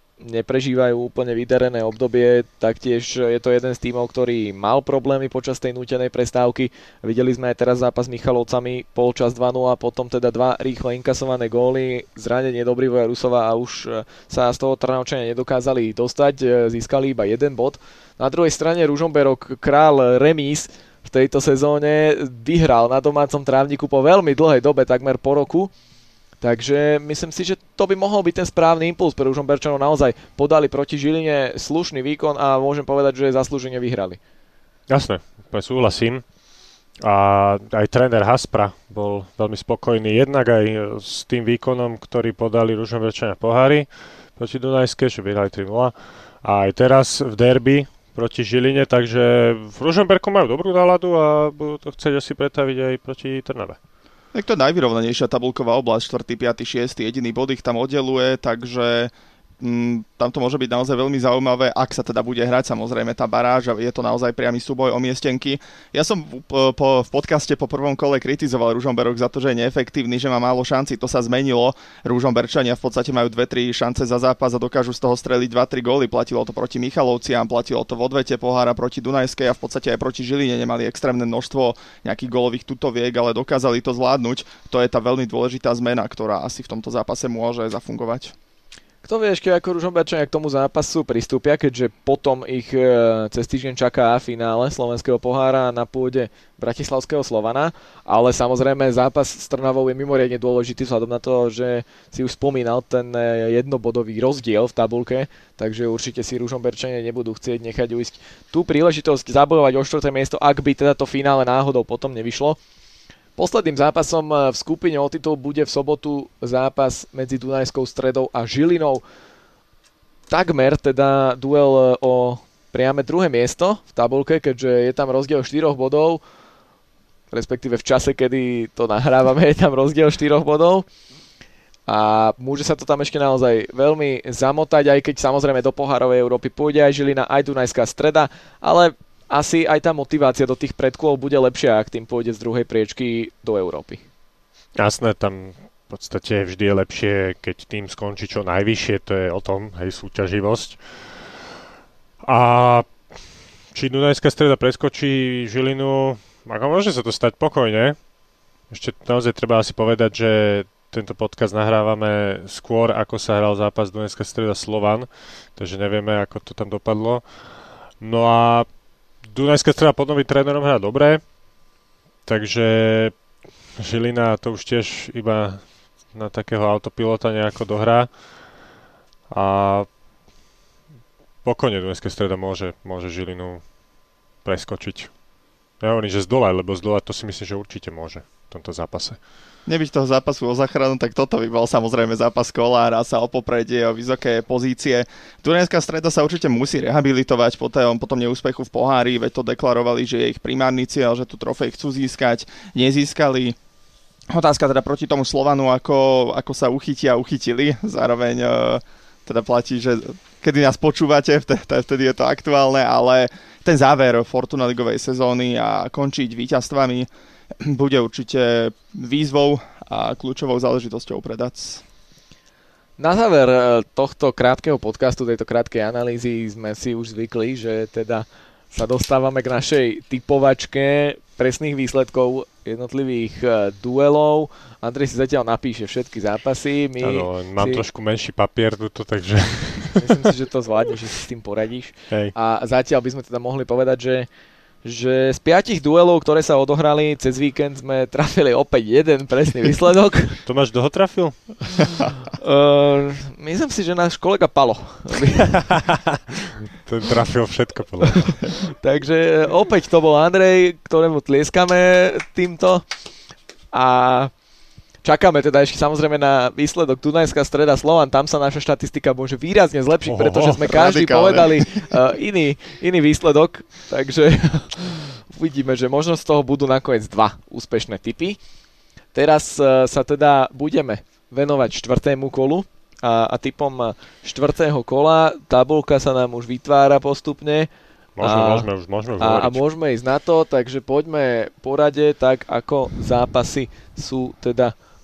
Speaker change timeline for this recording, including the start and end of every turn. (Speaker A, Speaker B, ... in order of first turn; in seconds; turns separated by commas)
Speaker A: 0.2-25.7, Speaker A: 26.4-34.2, Speaker B: 34.9-36.2, Speaker B: 37.0-53.8, Speaker C: 54.3-88.3, Speaker A: 89.0-112.6, Speaker A: 113.4-119.0, Speaker A: 120.3-126.2, Speaker A: 127.3-130.9, Speaker A: 131.9-144.0, Speaker B: 144.8-151.4, Speaker B: 152.2-153.1, Speaker B: 153.7-158.0, Speaker B: 158.7-168.7, Speaker B: 169.2-171.2, Speaker B: 172.3-173.2, Speaker B: 173.8-178.1, Speaker B: 179.3-179.9, Speaker B: 181.4-183.6, Speaker B: 184.4-185.1, Speaker B: 185.8-189.2, Speaker C: 189.7-203.6, Speaker C: 204.3-217.1, Speaker C: 217.6-221.8, Speaker A: 223.0-237.8, Speaker B: 237.0-240.3, Speaker A: 240.0-244.3, Speaker A: 244.8-250.4, Speaker B: 250.4-251.8, Speaker A: 252.3-255.7, Speaker B: 255.7-256.0, Speaker B: 256.7-258.3, Speaker A: 258.3-262.8, Speaker A: 263.7-264.3, Speaker A: 265.0-278.4, Speaker B: 270.0-270.6, Speaker C: 270.6-271.9, Speaker A: 279.1-287.7, Speaker B: 288.2-289.6, Speaker A: 288.2-288.7, Speaker A: 289.2-294.7